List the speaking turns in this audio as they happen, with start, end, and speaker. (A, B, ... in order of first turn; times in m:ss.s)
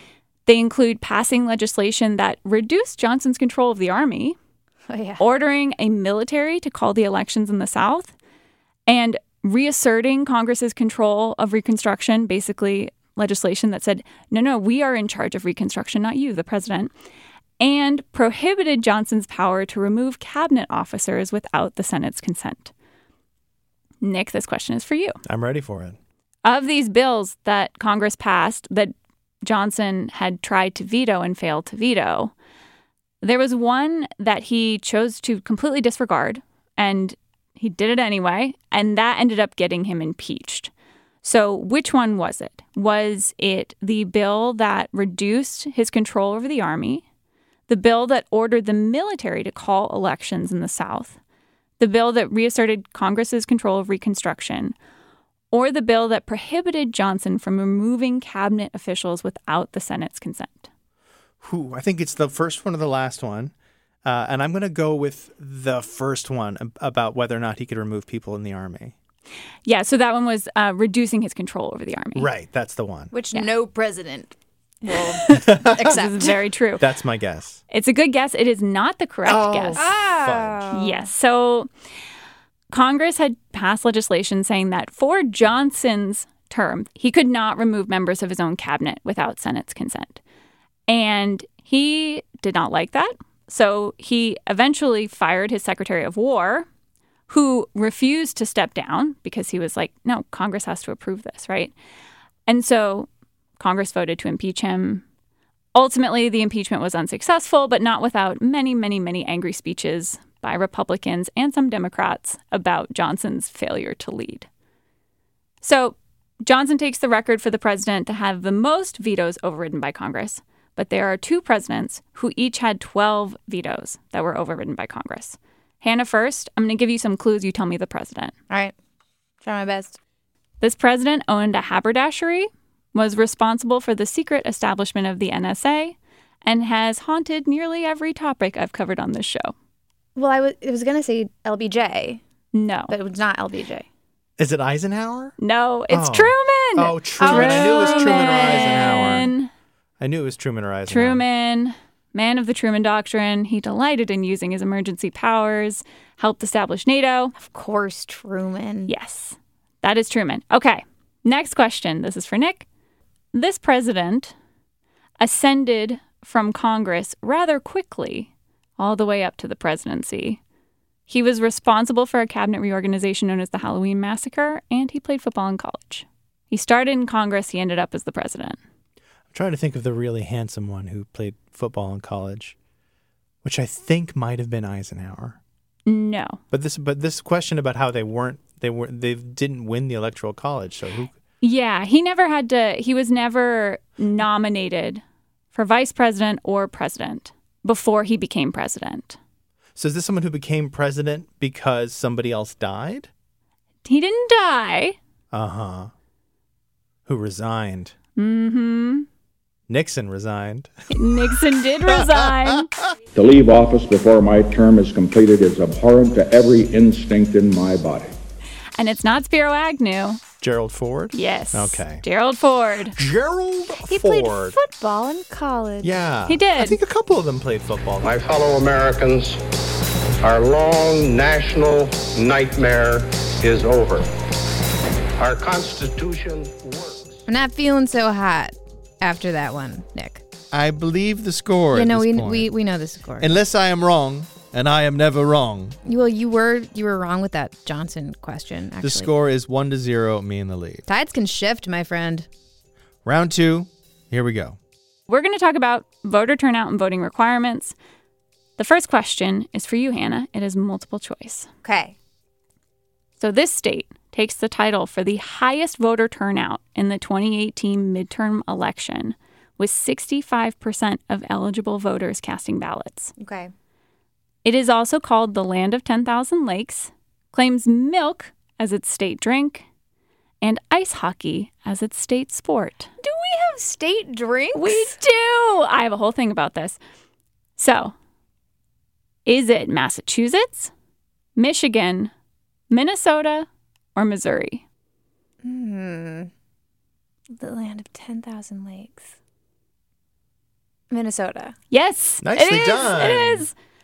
0:00.5-0:04.4 A
0:04.9-0:05.2 B
0:05.2-0:08.1 A
0:08.9-0:16.9 A
0:17.6-0:22.7 A
0:24.0-0:25.2 A
0:25.2-0:26.0 C
0:26.4-0:32.3 A
0:33.2-0:40.7 A
0:41.2-0:47.0 A
0:47.7-0:51.2 A
0:51.8-0:54.8 A
0:55.5-1:00.7 A
1:01.4-1:03.5 C
1:04.0-1:09.0 C
1:09.6-1:12.3 A
1:12.2-1:13.1 C
1:13.1-1:16.4 B
1:14.9-1:16.9 A
1:15.3-1:16.0 C
1:16.8-1:17.6 C
1:17.7-1:19.8 A
1:19.3-1:20.7 C
1:19.8-1:21.0 B
1:20.7-1:21.7 A
1:22.7-1:30.2 A
1:30.9-1:36.7 A
1:37.3-1:41.7 A
1:42.5-1:43.1 A
1:43.6-1:45.0 A
1:45.8-1:54.5 A
1:55.6-2:08.3 A
2:09.4-2:10.0 B
2:10.6-2:19.5 A
2:20.2-2:22.2 B
2:22.5-2:22.9 A
2:22.9-2:23.8 B
2:24.4-2:25.4 C
2:25.4-2:29.5 A
2:25.9-2:29.3 C
2:27.2-2:29.2 B
2:30.0-2:31.2 C
2:30.9-2:37.3 A
2:37.4-2:38.9 B
2:38.9-2:42.7 A
2:43.3-2:44.3 A
2:45.2-2:50.4 A
2:51.1-2:58.6 A
2:59.3-3:02.6 C
3:03.4-3:05.4 C
3:05.9-3:06.4 A
3:06.5-3:11.1 C
3:11.4-3:15.0 A
3:15.5-3:19.2 A
3:19.8-3:23.1 C
3:23.8-3:25.0 A
3:25.3-3:25.9 C
3:27.0-3:28.0 C
3:28.2-3:29.1 A
3:29.7-3:31.3 C
3:30.9-3:32.7 A
3:31.8-3:32.5 C
3:33.1-3:38.2 D
3:38.8-3:40.2 A
3:40.4-3:42.0 C
3:41.1-3:43.0 A
3:43.0-3:44.6 C
3:43.8-3:45.9 B
3:45.8-3:48.2 C
3:46.3-3:46.8 A
3:48.0-3:49.4 E
3:50.2-3:54.1 E
3:55.2-3:57.2 E
3:57.3-4:00.2 B
4:00.5-4:02.5 C
4:01.7-4:03.4 B
4:03.2-4:05.8 C
4:05.8-4:09.1 B
4:08.8-4:10.8 C
4:10.9-4:12.3 B
4:13.0-4:14.6 C
4:15.1-4:17.8 A
4:18.6-4:21.5 A
4:21.6-4:22.0 B
4:23.2-4:33.1 A
4:33.2-4:33.5 B
4:34.4-4:39.6 A
4:40.4-4:42.9 A
4:43.0-4:44.9 B
4:44.5-4:46.8 A
4:47.6-4:47.9 A
4:49.2-4:50.7 A
4:51.4-4:52.1 A
4:52.7-4:54.6 A
4:55.4-4:56.3 B
4:57.4-4:59.1 B
5:00.9-5:01.5 B
5:01.7-5:03.5 A
5:02.2-5:03.4 C